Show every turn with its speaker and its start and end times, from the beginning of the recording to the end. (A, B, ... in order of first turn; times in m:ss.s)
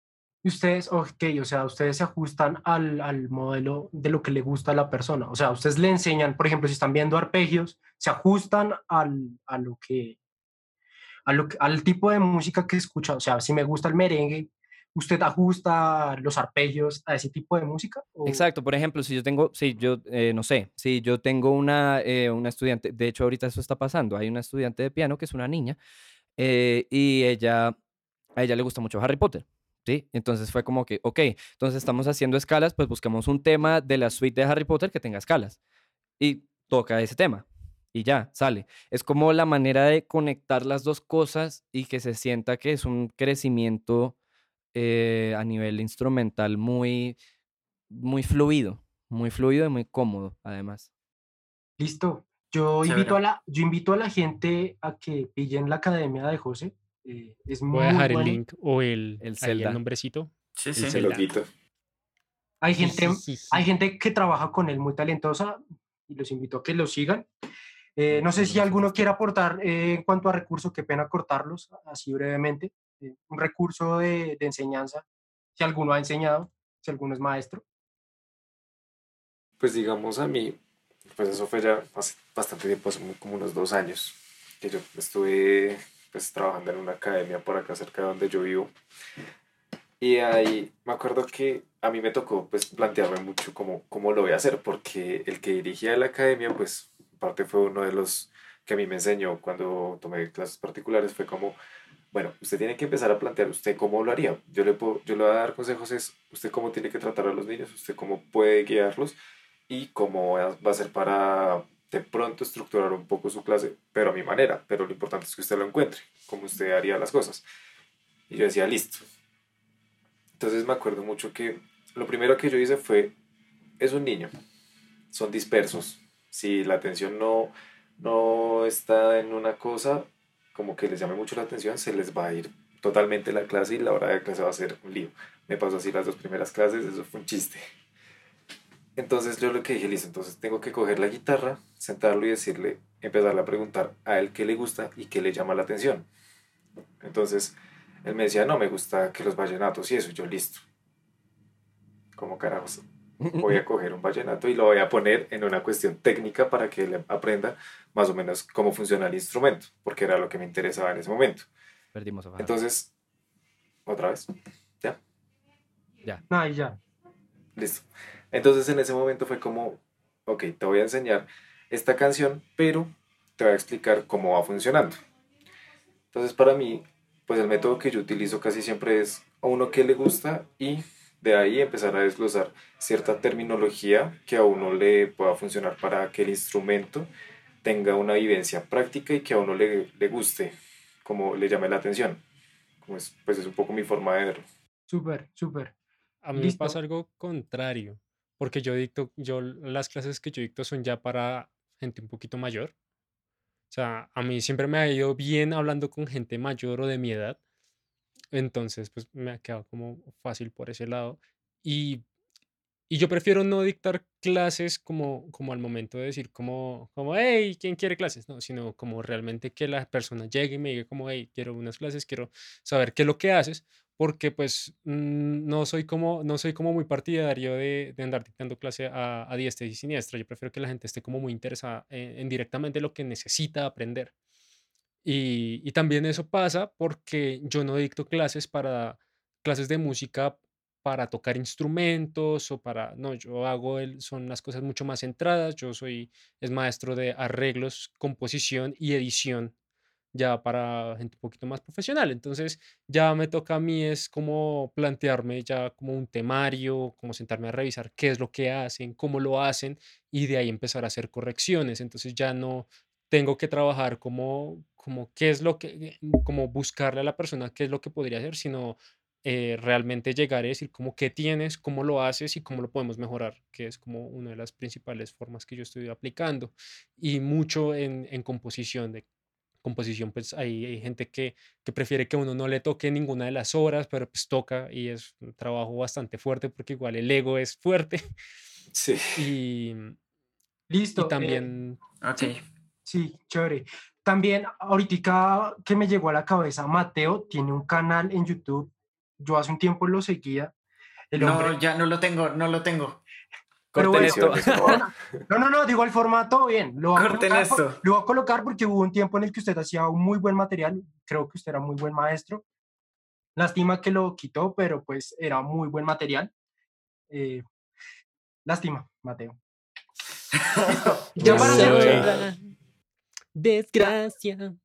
0:00.4-0:10.2 A
0:11.3-0:18.4 A
0:18.3-0:25.8 B
0:26.4-0:27.8 B
0:28.4-0:35.6 B
0:36.2-0:44.2 B
0:44.7-0:47.2 B
0:47.9-0:50.9 B
0:51.8-0:58.4 A
0:52.8-0:53.2 C
0:57.7-1:01.3 D
0:59.2-0:59.8 B
1:00.6-1:01.0 C
1:00.8-1:01.5 E
1:02.6-1:07.3 A
1:02.8-1:03.6 D
1:08.0-1:15.0 A
1:08.1-1:09.0 B
1:15.6-1:17.6 A
1:19.6-1:20.6 E
1:21.1-1:28.7 E
1:30.0-1:41.6 E
1:42.1-1:49.2 E
1:49.7-1:57.4 E
1:58.3-1:59.0 E
2:00.4-2:03.1 E
2:03.8-2:04.3 E
2:05.1-2:17.6 E
2:19.0-2:26.1 E
2:27.0-2:30.6 E
2:32.2-2:32.8 E
2:33.2-2:33.6 B
2:33.4-2:41.5 E
2:42.0-2:42.6 B
2:42.4-2:42.9 E
2:43.9-2:44.3 E
2:46.3-2:46.8 A
2:47.6-2:55.0 E
2:56.1-3:07.1 E
3:07.6-3:12.2 E
3:12.8-3:14.4 E
3:14.9-3:15.7 A
3:16.2-3:22.7 D
3:16.4-3:16.8 A
3:23.7-3:27.4 D
3:28.3-3:32.0 D
3:32.9-3:54.1 D
3:55.0-4:09.5 D
4:10.1-4:39.0 D
4:39.6-4:48.0 D
4:48.7-4:49.3 E
4:49.2-4:50.0 D
4:50.7-4:51.4 A
4:51.0-4:51.8 D
4:52.0-4:52.4 C
4:52.9-5:00.5 A
5:01.1-5:01.6 A
5:01.2-5:03.0 C
5:03.7-5:04.8 B
5:03.8-5:12.4 A
5:04.0-5:04.8 E
5:06.9-5:07.8 C
5:13.4-5:16.3 A
5:17.1-5:17.4 A
5:18.5-5:19.4 A
5:20.4-5:21.0 C
5:20.7-5:22.1 A
5:21.2-5:22.1 B
5:21.3-5:22.4 D
5:21.3-5:22.1 E
5:23.4-5:24.6 D